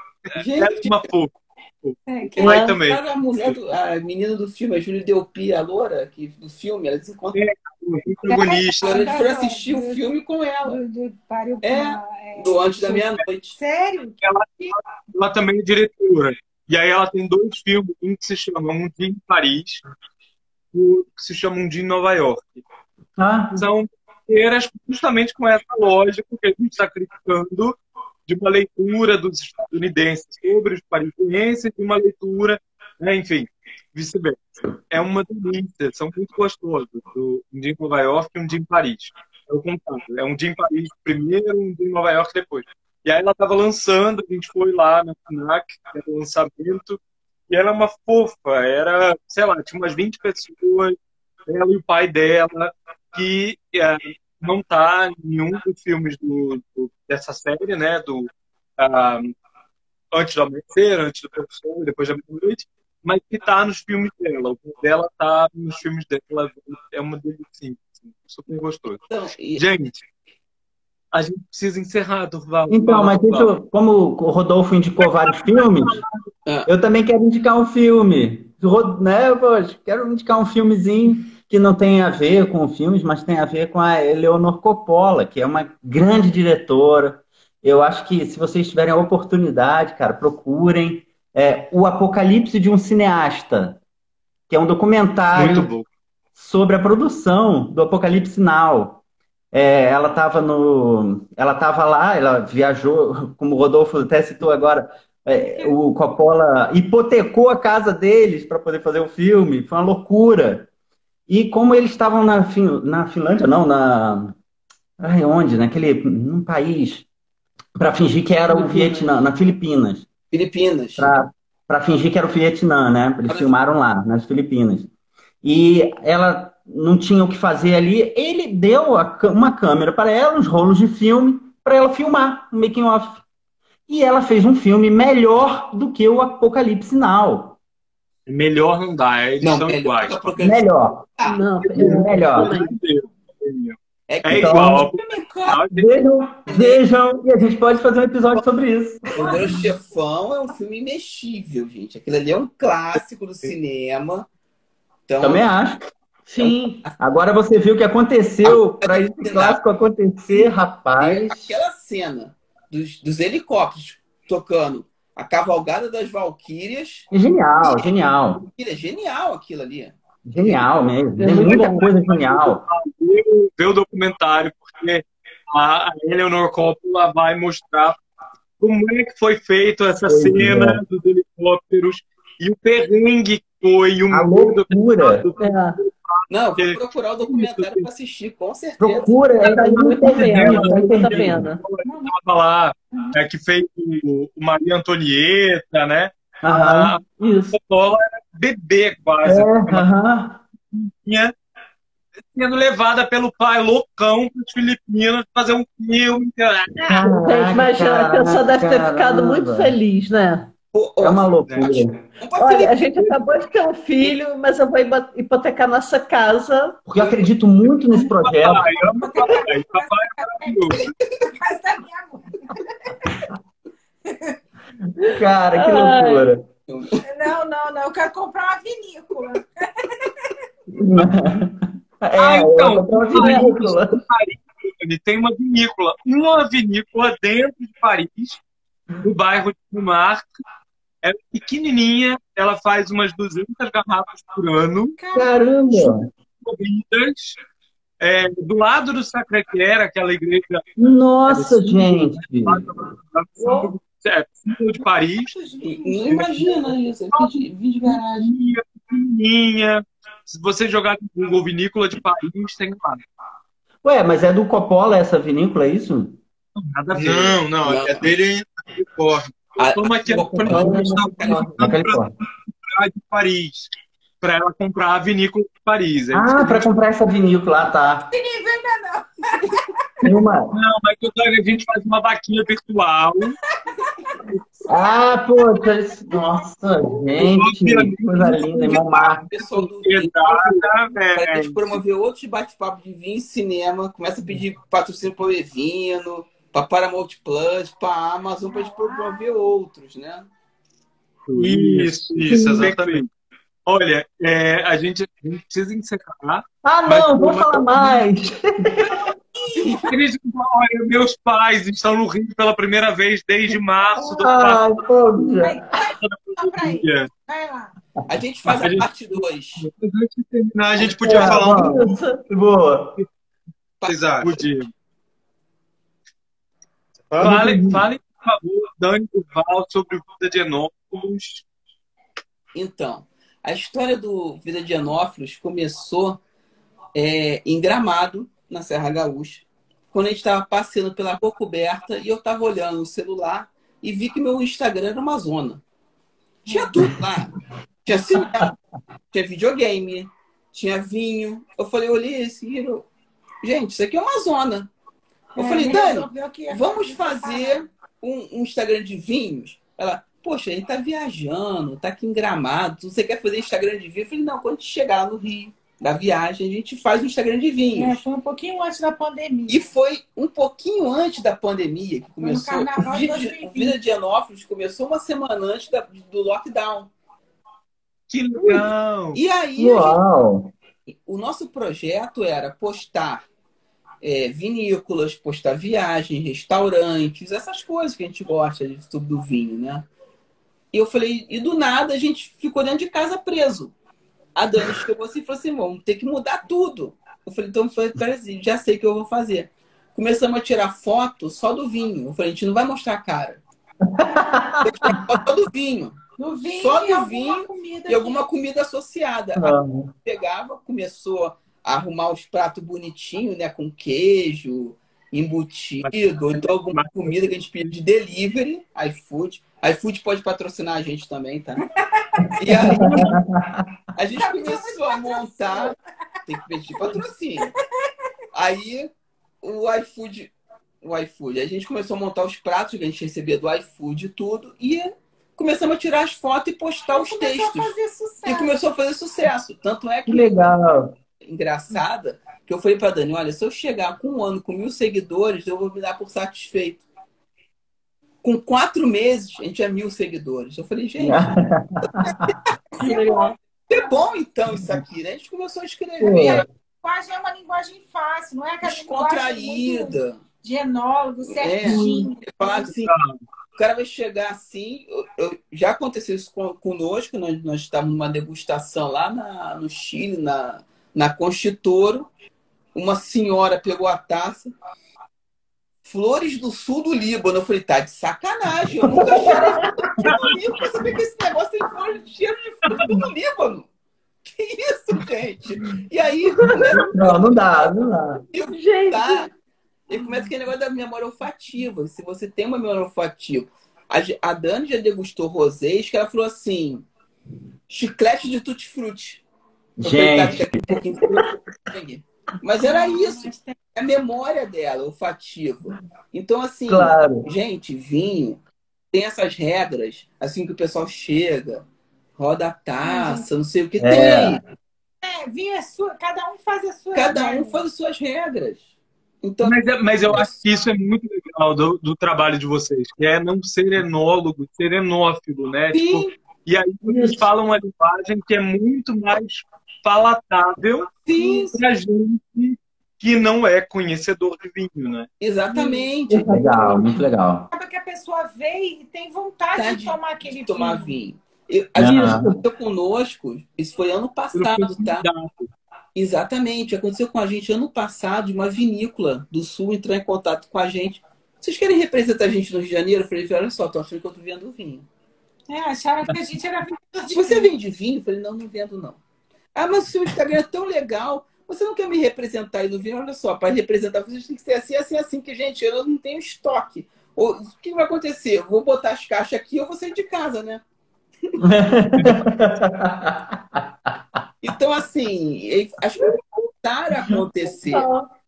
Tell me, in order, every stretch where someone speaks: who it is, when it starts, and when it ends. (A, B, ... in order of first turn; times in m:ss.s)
0:00.4-0:01.0 A
0:00.5-0:03.6 B
0:02.0-0:02.5 C
0:02.3-0:07.4 A
0:02.4-0:02.7 D
0:07.3-0:08.8 B
0:08.2-0:08.5 E
0:08.3-0:10.0 C
0:08.8-0:10.8 A
0:10.6-0:14.7 C
0:11.6-0:13.6 A
0:14.2-0:19.8 B
0:20.7-0:22.6 B
0:23.2-0:23.6 F
0:23.5-0:47.0 B
0:47.5-0:50.9 B
0:51.5-0:59.3 B
1:00.1-1:09.0 B
1:09.1-1:09.6 A
1:09.6-1:10.0 B
1:11.1-1:13.5 B
1:12.7-1:16.0 F
1:15.0-1:16.3 B
1:16.6-1:33.8 F
1:34.5-1:35.7 F
1:35.3-1:35.8 B
1:36.3-1:50.7 F
1:45.3-1:45.7 C
1:51.3-1:54.4 F
1:55.0-1:57.1 F
1:57.7-2:00.1 F
1:58.5-1:59.1 D
2:00.3-2:01.1 A
2:01.0-2:04.9 F
2:03.3-2:03.5 A
2:05.4-2:13.2 F
2:13.9-2:17.6 F
2:18.3-2:20.3 B
2:19.4-2:21.4 A
2:20.4-2:22.6 F
2:21.2-2:22.7 D
2:21.6-2:25.9 B
2:24.1-2:24.9 A
2:24.2-2:24.8 F
2:24.8-2:25.6 C
2:25.7-2:29.6 F
2:26.5-2:26.8 A
2:29.1-2:34.3 A
2:35.1-2:35.5 A
2:35.2-2:35.8 F
2:36.3-2:36.8 D
2:36.4-2:37.0 A
2:37.0-2:41.6 F
2:38.4-2:39.6 A
2:40.3-2:47.1 A
2:47.1-2:48.4 F
2:47.6-2:50.6 A
2:50.2-2:52.6 F
2:51.2-2:51.9 D
2:51.4-2:58.0 B
2:58.6-3:07.9 B
3:00.0-3:00.8 F
3:04.1-3:05.3 F
3:05.4-3:05.8 D
3:06.3-3:09.2 A
3:08.8-3:11.4 F
3:09.4-3:19.9 B
3:09.4-3:11.6 D
3:11.8-3:12.2 C
3:12.9-3:13.2 C
3:16.4-3:16.9 F
3:17.2-3:17.5 D
3:19.2-3:20.4 F
3:20.7-3:21.3 B
3:22.3-3:27.1 B
3:26.9-3:29.8 F
3:27.2-3:30.5 D
3:30.7-3:33.2 A
3:31.0-3:32.0 F
3:32.4-3:36.9 D
3:36.9-3:38.7 F
3:37.0-3:37.2 A
3:37.9-3:40.9 B
3:38.7-3:43.2 C
3:44.0-3:44.4 C
3:45.0-3:46.5 F
3:45.5-3:46.3 D
3:46.7-3:47.0 A
3:47.0-3:50.3 C
3:50.7-3:54.0 F
3:52.2-3:58.4 B
3:53.1-3:53.5 D
3:59.0-4:00.3 B
4:01.0-4:05.0 B
4:05.0-4:05.9 C
4:05.1-4:06.1 F
4:06.4-4:07.4 B
4:08.0-4:10.6 B
4:10.8-4:12.9 F
4:11.3-4:15.3 B
4:13.4-4:13.7 C
4:15.1-4:16.4 C
4:15.6-4:18.3 A
4:16.1-4:17.3 B
4:17.8-4:23.0 B
4:23.8-4:26.2 F
4:26.6-4:27.4 B
4:26.9-4:29.4 E
4:27.6-4:28.1 A
4:29.6-4:31.5 A
4:29.6-4:31.8 B
4:30.5-4:32.1 F
4:30.5-4:32.0 E
4:32.7-4:33.7 E
4:34.2-4:36.7 B
4:36.1-4:38.1 F
4:38.0-4:40.0 C
4:40.0-4:40.6 F
4:40.5-4:43.4 B
4:43.9-4:44.1 C
4:44.7-4:49.2 F
4:47.2-4:48.7 B
4:47.2-4:48.2 E
4:48.3-5:00.3 A
4:49.4-4:51.8 B
4:58.5-4:59.5 C
5:01.3-5:03.1 B
5:01.4-5:03.1 E
5:02.3-5:02.6 D
5:03.6-5:07.9 B
5:06.7-5:08.2 D
5:06.8-5:08.8 F
5:09.3-5:09.9 C
5:09.5-5:09.8 A
5:09.8-5:14.9 B
5:14.0-5:15.6 F
5:15.4-5:17.8 C
5:16.0-5:17.1 B
5:18.1-5:19.6 A
5:18.5-5:18.9 B
5:19.8-5:22.0 E
5:21.0-5:22.2 D
5:21.0-5:23.0 F
5:23.8-5:24.3 E
5:24.2-5:24.7 B
5:27.1-5:27.5 E
5:27.2-5:31.4 B
5:27.2-5:27.8 F
5:32.5-5:36.2 A
5:36.9-5:45.6 A
5:46.4-5:46.9 C
5:46.5-5:48.5 A
5:49.1-5:52.9 A
5:53.4-5:54.7 A
5:55.3-5:57.6 C
5:55.4-6:08.0 A
6:07.7-6:09.7 C
6:09.5-6:16.9 A
6:12.2-6:13.8 C
6:18.1-6:19.2 B
6:19.1-6:20.0 A
6:19.6-6:20.5 F
6:20.9-6:23.2 A
6:24.0-6:29.9 A
6:30.7-6:33.7 A
6:34.3-6:43.4 A
6:43.9-6:45.2 F
6:44.6-6:46.0 A
6:46.2-6:48.3 C
6:46.5-7:01.6 A
6:49.4-6:49.9 F
6:56.7-6:57.1 B
7:01.7-7:02.7 C
7:02.4-7:03.1 A
7:02.5-7:03.7 F
7:04.0-7:05.7 A
7:04.1-7:05.8 C
7:06.3-7:07.5 A
7:06.8-7:07.6 C
7:08.3-7:08.9 A
7:09.4-7:17.7 A
7:16.9-7:18.6 C
7:18.2-7:20.5 A
7:20.1-7:20.9 F
7:21.2-7:26.8 A
7:28.2-7:31.4 A
7:31.0-7:32.3 F
7:32.0-7:32.9 A
7:32.8-7:33.8 C
7:32.8-7:33.3 D
7:33.7-7:36.5 A
7:36.0-7:36.4 F
7:36.1-7:42.7 C
7:38.6-7:40.2 A
7:41.3-7:42.9 A
7:42.6-7:43.2 B
7:43.6-7:52.1 A
7:52.7-7:54.5 A
7:55.8-8:03.7 A
7:59.0-7:59.3 F
8:04.2-8:07.7 A
8:06.7-8:08.2 F
8:08.3-8:09.3 A
8:08.5-8:09.3 D
8:09.9-8:16.9 A
8:09.9-8:10.3 C
8:17.7-8:19.2 A
8:19.8-8:21.3 F
8:19.8-8:34.4 A
8:22.6-8:23.6 C
8:26.7-8:27.3 F
8:32.8-8:33.3 C
8:33.8-8:34.4 F
8:35.0-8:37.6 C
8:36.9-8:38.7 A
8:39.2-8:39.6 A
8:39.4-8:55.1 B
8:40.1-8:40.4 C
8:45.7-8:46.2 A
8:46.8-8:47.2 D
8:51.0-8:51.6 A
8:55.2-8:56.3 A
8:55.5-8:55.9 C
8:56.1-8:57.1 D
8:56.2-8:57.5 F
8:57.5-9:01.0 C
8:59.5-9:05.0 A
9:01.8-9:02.3 F
9:01.8-9:02.4 D
9:04.3-9:05.5 B
9:05.9-9:14.9 A
9:15.5-9:17.5 C
9:17.1-9:19.0 A
9:19.5-9:30.6 A
9:31.4-9:33.9 F
9:34.4-9:37.9 A
9:36.1-9:36.4 B
9:37.6-9:38.1 D